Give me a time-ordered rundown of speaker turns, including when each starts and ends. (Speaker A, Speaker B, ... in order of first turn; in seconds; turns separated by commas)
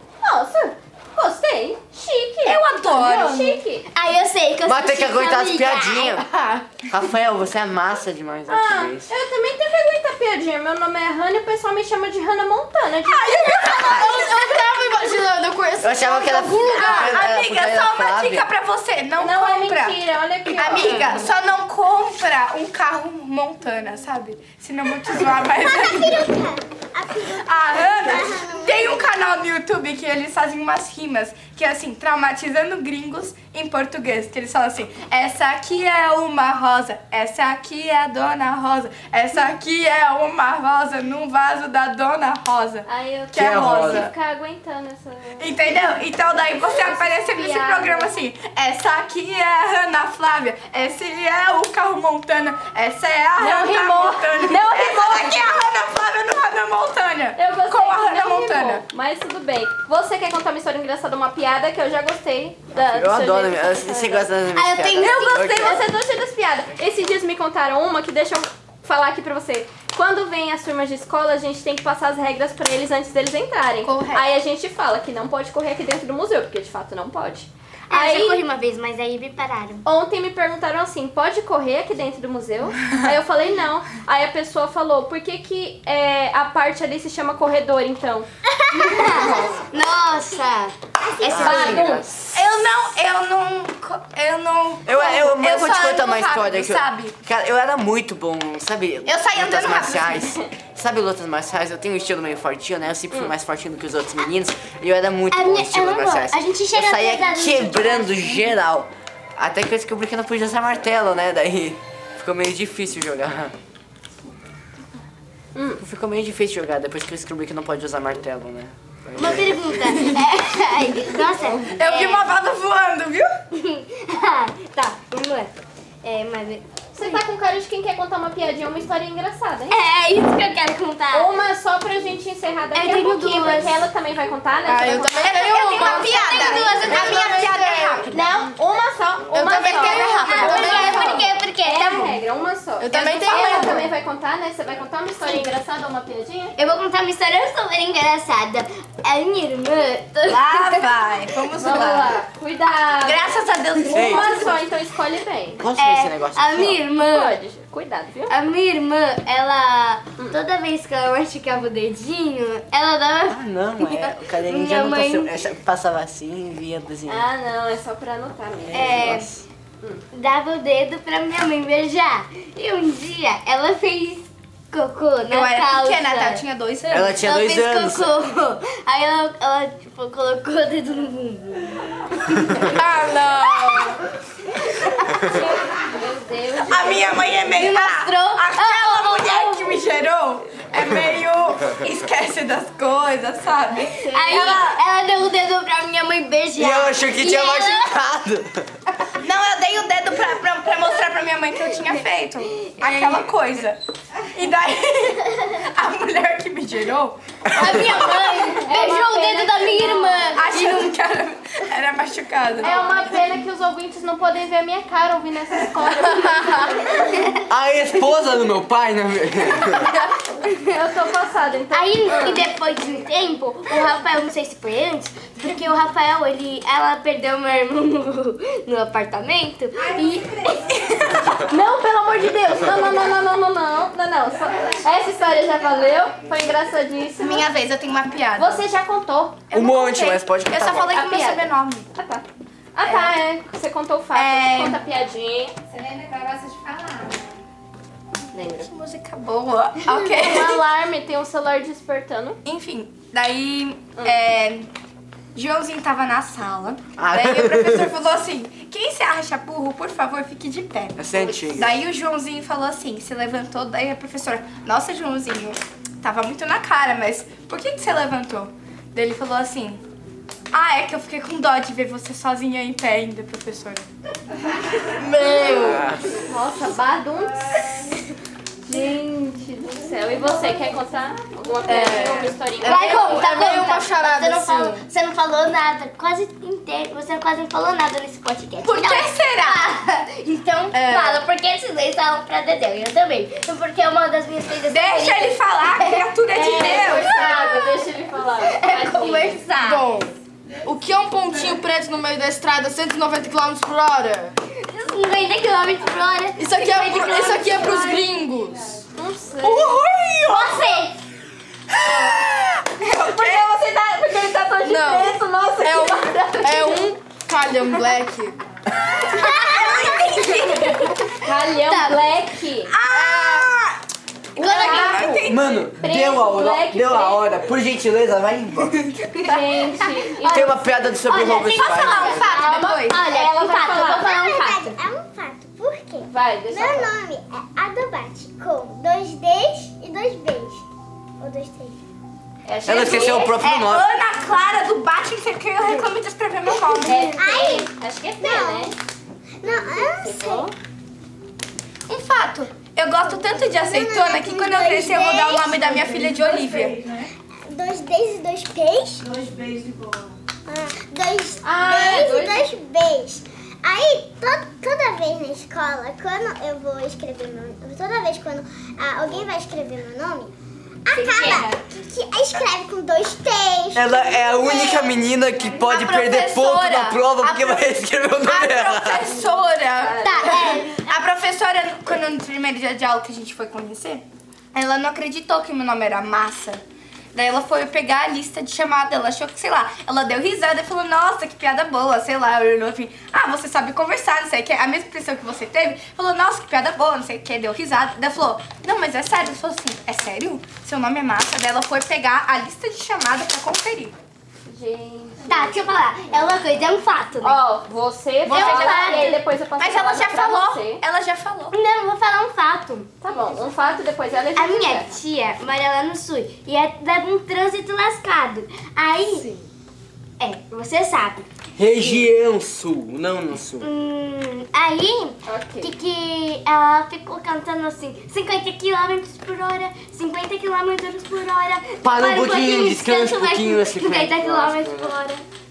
Speaker A: 0.2-3.9, Speaker B: 2.5-3.6, Speaker C: 3.9-6.6, Speaker D: 4.7-6.3, Speaker D: 6.9-9.1, Speaker A: 8.5-14.2, Speaker B: 13.0-14.6, Speaker E: 13.6-17.3, Speaker D: 15.8-18.5, Speaker B: 16.7-20.0, Speaker A: 19.2-21.3, Speaker B: 20.5-26.3, Speaker F: 25.5-29.1, Speaker B: 27.5-44.1, Speaker A: 42.9-45.7, Speaker D: 43.3-44.1, Speaker B: 45.4-58.9, Speaker A: 46.5-48.2, Speaker A: 53.4-55.6, Speaker A: 57.4-64.3, Speaker D: 62.9-65.9, Speaker C: 64.5-65.8, Speaker A: 65.0-78.4, Speaker B: 73.8-74.2, Speaker C: 77.9-79.9, Speaker A: 79.8-88.3, Speaker C: 88.7-91.8, Speaker F: 88.8-89.6, Speaker F: 91.0-91.8, Speaker D: 91.2-92.4, Speaker A: 91.4-92.1, Speaker B: 92.3-97.2, Speaker D: 94.8-113.5, Speaker B: 99.1-100.2, Speaker C: 105.3-108.4, Speaker A: 115.5-115.8, Speaker D: 115.8-119.6, Speaker C: 119.2-122.1, Speaker B: 121.7-123.3, Speaker C: 123.5-125.5, Speaker C: 126.0-127.2, Speaker A: 126.9-129.8, Speaker C: 129.7-131.3, Speaker A: 131.1-137.4, Speaker C: 132.8-133.8, Speaker B: 134.7-138.2, Speaker E: 134.8-137.9, Speaker C: 135.5-138.5, Speaker A: 138.1-146.6, Speaker E: 139.3-141.1, Speaker B: 139.5-141.3, Speaker C: 139.7-142.2, Speaker E: 142.8-143.8, Speaker B: 142.8-143.8, Speaker C: 143.3-143.7, Speaker C: 146.6-150.9, Speaker B: 150.3-152.2, Speaker A: 151.6-155.6, Speaker B: 153.0-154.6, Speaker D: 153.9-154.3, Speaker D: 155.6-156.8, Speaker C: 155.8-157.3, Speaker A: 157.0-158.3, Speaker C: 158.3-165.3, Speaker D: 163.3-167.3, Speaker A: 167.1-169.1, Speaker D: 168.7-169.4, Speaker B: 168.7-169.3, Speaker C: 170.1-176.4, Speaker B: 175.3-177.2, Speaker D: 176.9-178.2, Speaker C: 177.2-182.8, Speaker B: 182.8-183.9, Speaker E: 182.8-183.9, Speaker C: 183.5-183.9, Speaker C: 184.6-185.6, Speaker A: 185.2-187.4, Speaker B: 186.7-194.8, Speaker C: 187.5-189.8, Speaker A: 193.9-194.6, Speaker C: 194.1-197.9, Speaker D: 196.6-198.8, Speaker B: 199.2-203.8, Speaker C: 202.7-203.2, Speaker B: 204.3-207.2, Speaker C: 207.6-210.9, Speaker A: 208.0-210.3, Speaker B: 210.3-212.8, Speaker A: 212.6-217.1, Speaker C: 212.6-213.0, Speaker C: 216.9-217.4, Speaker D: 217.5-219.9, Speaker A: 220.7-222.5, Speaker C: 221.7-231.4, Speaker A: 231.4-237.5, Speaker E: 234.7-235.9, Speaker B: 237.2-238.7, Speaker A: 238.4-239.4, Speaker B: 239.5-241.9, Speaker D: 239.5-240.9, Speaker A: 240.8-245.6, Speaker B: 242.8-243.2, Speaker B: 244.1-244.8, Speaker B: 245.7-247.3, Speaker A: 248.3-248.7, Speaker B: 248.6-250.6, Speaker A: 250.0-252.4, Speaker B: 252.4-254.7, Speaker B: 255.3-269.8, Speaker D: 257.0-257.9, Speaker D: 261.0-261.8, Speaker B: 270.5-273.9, Speaker E: 275.0-275.9, Speaker C: 275.2-275.6, Speaker D: 275.5-276.1, Speaker A: 276.1-277.9, Speaker A: 278.7-283.2, Speaker E: 281.7-284.8, Speaker B: 281.9-283.1, Speaker C: 282.6-297.9, Speaker B: 288.6-289.7, Speaker E: 290.7-291.2, Speaker B: 294.7-297.2, Speaker A: 296.3-299.4, Speaker C: 298.4-299.9, Speaker E: 299.6-300.1, Speaker E: 300.6-304.4, Speaker C: 304.6-308.1, Speaker E: 306.4-308.8, Speaker A: 308.9-309.8, Speaker B: 309.4-310.6, Speaker E: 309.4-310.3, Speaker C: 310.3-311.0, Speaker B: 312.1-313.5, Speaker A: 313.0-313.4, Speaker C: 313.0-316.8, Speaker E: 314.6-318.4, Speaker C: 319.0-320.9, Speaker B: 319.1-321.1, Speaker F: 319.4-320.1, Speaker A: 321.2-322.8, Speaker C: 321.5-322.0, Speaker B: 322.7-323.5, Speaker C: 323.0-323.5, Speaker B: 324.4-325.6, Speaker C: 324.4-325.2, Speaker A: 324.4-325.2, Speaker D: 325.3-328.9, Speaker A: 325.8-327.3, Speaker B: 329.0-329.5, Speaker A: 329.2-330.8, Speaker C: 330.1-334.7, Speaker D: 330.2-332.3, Speaker B: 331.3-333.0, Speaker A: 331.8-334.3, Speaker F: 333.8-340.6, Speaker A: 336.1-336.9, Speaker F: 341.2-341.8, Speaker A: 342.5-343.4, Speaker D: 342.7-343.9, Speaker B: 342.7-347.1, Speaker F: 346.8-348.8, Speaker A: 346.8-348.8, Speaker F: 349.4-350.5, Speaker A: 349.4-350.5, Speaker B: 351.9-356.8, Speaker F: 353.1-355.6, Speaker E: 355.6-357.1, Speaker F: 357.5-359.1, Speaker E: 359.0-360.2, Speaker F: 360.5-370.3, Speaker A: 361.4-362.5, Speaker F: 370.9-375.0, Speaker C: 371.0-371.6, Speaker D: 373.8-379.1, Speaker B: 375.6-386.6, Speaker A: 379.8-380.6, Speaker F: 380.0-380.9, Speaker B: 387.1-403.9, Speaker A: 404.5-405.6, Speaker C: 405.3-407.4, Speaker A: 407.2-410.8, Speaker B: 408.2-411.6, Speaker C: 408.3-409.2, Speaker C: 411.5-412.9, Speaker A: 413.0-414.9, Speaker C: 414.4-419.3, Speaker C: 420.2-421.3, Speaker D: 421.6-423.7, Speaker C: 423.6-435.2, Speaker A: 425.3-425.7, Speaker D: 431.8-435.0